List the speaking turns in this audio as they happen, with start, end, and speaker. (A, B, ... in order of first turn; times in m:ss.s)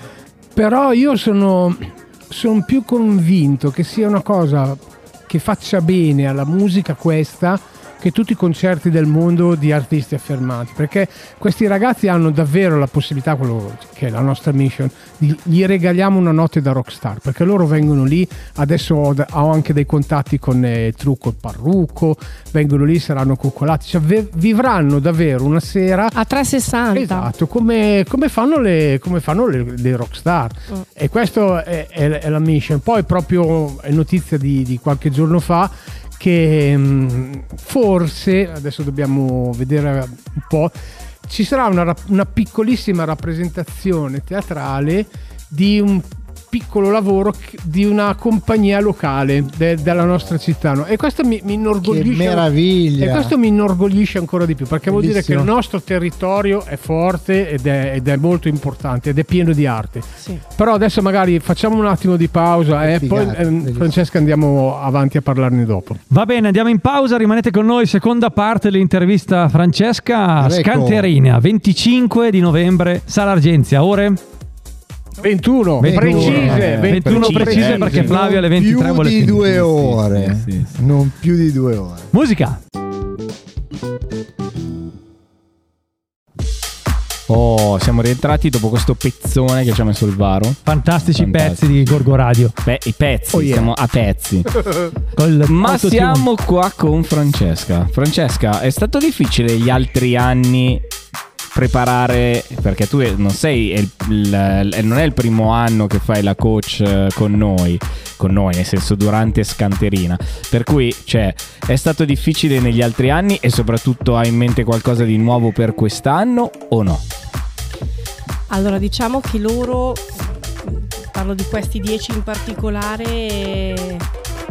0:00.5-0:26.1 A
0:26.1-0:27.3 B
0:26.9-0:40.7 A
0:41.2-1:06.0 A
0:51.8-0:53.3 C
0:54.9-0:55.5 C
1:02.8-1:04.0 C
1:06.1-1:14.2 D
1:10.4-1:11.1 C
1:15.2-1:18.1 A
1:15.8-1:19.5 D
1:15.8-1:16.6 C
1:16.1-1:18.2 E
1:18.0-1:22.1 C
1:19.6-1:20.8 E
1:22.1-1:22.6 D
1:27.3-1:34.7 E
1:30.6-1:32.5 D
1:35.1-1:36.3 D
1:35.4-1:40.8 E
1:41.5-1:57.0 E
1:58.5-2:04.0 B